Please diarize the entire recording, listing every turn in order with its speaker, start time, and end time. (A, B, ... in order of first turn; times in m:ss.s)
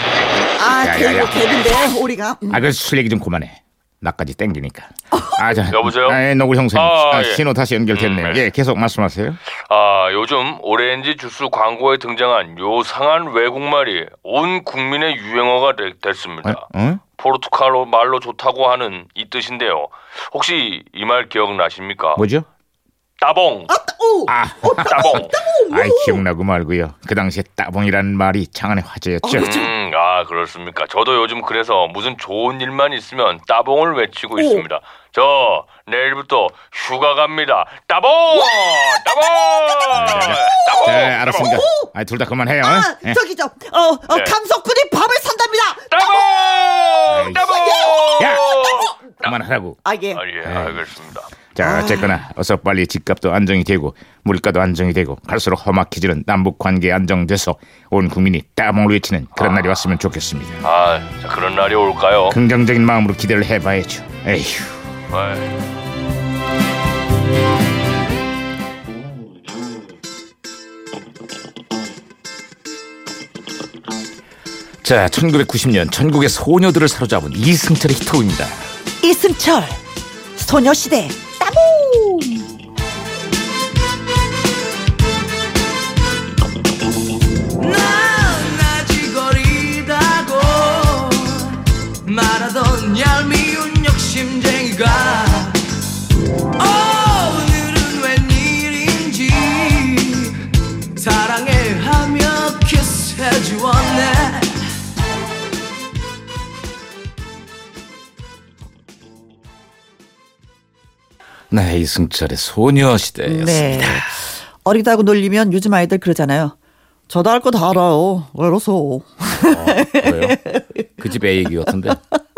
0:00.5-0:02.6 A
0:00.8-0:01.5 B
0:02.5-0:09.4 B
0:05.1-0:05.4 A
0:05.7-0:06.2 C
0:06.7-0:07.4 C
0:07.9-0:08.4 C
0:09.6-0:16.6 C
0:16.4-0:17.0 B
0:17.2-0:22.2 C
0:22.2-0:22.5 B
0:23.2-0:23.7 C
0:23.7-0:26.2 A
0:24.3-0:29.5 B
0:24.8-0:25.3 C
0:29.2-0:29.7 A
0:29.3-0:41.5 C
0:34.4-0:34.6 A
0:38.4-0:41.9 A
0:39.9-0:43.2 B
0:42.6-0:48.9 A
0:44.1-0:44.4 C
0:45.9-0:49.0 C
0:47.1-0:47.6 B
0:48.2-0:49.8 B
0:49.8-0:50.2 A
0:50.1-0:51.3 C
0:50.4-0:50.8 B
0:51.5-1:00.6 B
0:51.6-0:52.1 A
0:59.4-0:59.9 C
1:00.6-1:02.4 C
1:02.3-1:04.8 B
1:05.1-1:05.5 C
1:14.8-1:18.6 B
1:19.0-1:19.8 A
1:20.4-1:22.4 A
1:27.6-1:35.6 D
1:36.6-1:44.6 D
1:51.5-1:54.1 B
1:53.2-1:56.5 A
1:57.1-2:00.9 A
1:59.4-2:00.4 B
2:01.0-2:02.0 B
2:01.6-2:02.1 A